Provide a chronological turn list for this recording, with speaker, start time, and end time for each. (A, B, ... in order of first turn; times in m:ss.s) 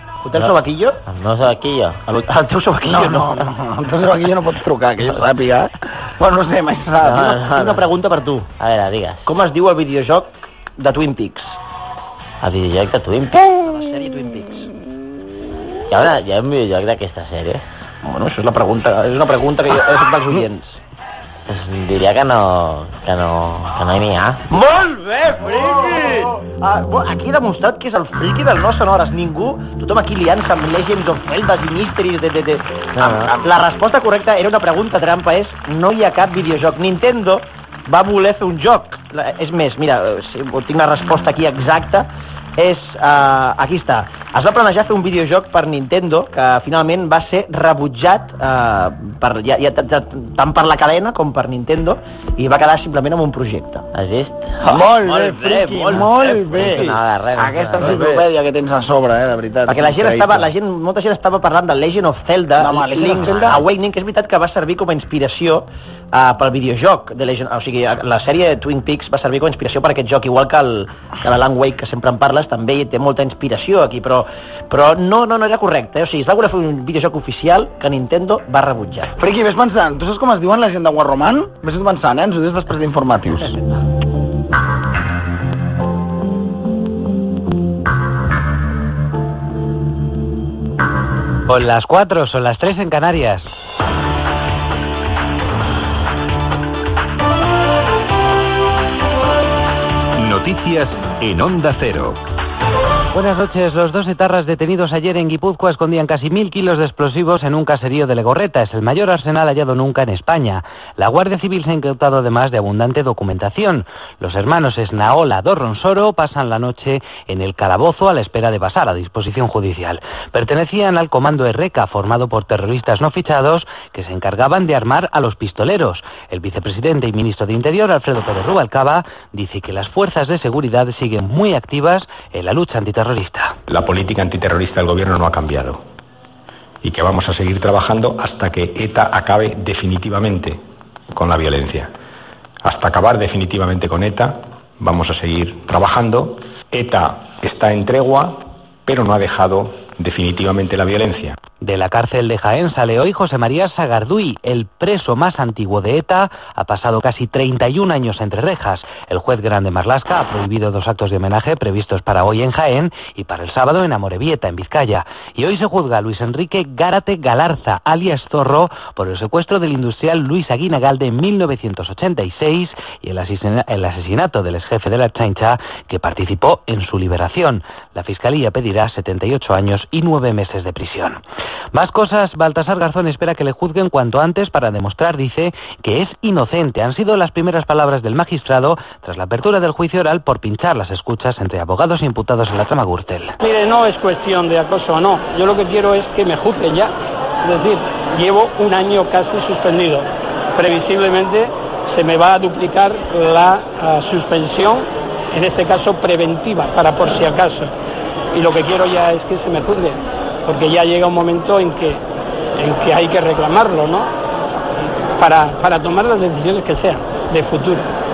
0:00.2-0:01.0 A
0:01.0-0:02.0 B
0:02.0-0:03.5 A
0:02.8-0:07.4 C
0:07.0-0:08.5 A
0:07.2-0:07.8 B
0:08.6-0:09.2 B
0:09.2-0:11.6 A
0:12.4-0:13.6 B
0:13.5-0:14.7 A
0:15.9-0:17.6 B
0:18.0-0:20.8 A
0:21.5-0:24.4 B
0:24.5-0:53.8 A
0:33.0-0:33.5 C
0:53.9-0:54.6 B
0:54.6-0:57.0 A
0:54.6-1:00.5 C
0:55.9-0:58.1 B
0:57.8-0:58.2 A
0:59.6-1:19.2 A
1:02.6-1:03.6 C
1:19.2-1:23.5 C
1:31.5-1:33.4 D
1:40.2-1:42.2 E
1:43.1-2:13.6 D
2:13.7-2:15.8 F
2:16.8-2:21.9 F
2:22.6-2:31.4 F
2:31.6-3:01.2 D
3:01.7-3:13.3 D
3:13.4-3:27.7 G
3:28.3-3:32.0 G
3:32.6-3:34.1 G
3:35.2-3:37.9 G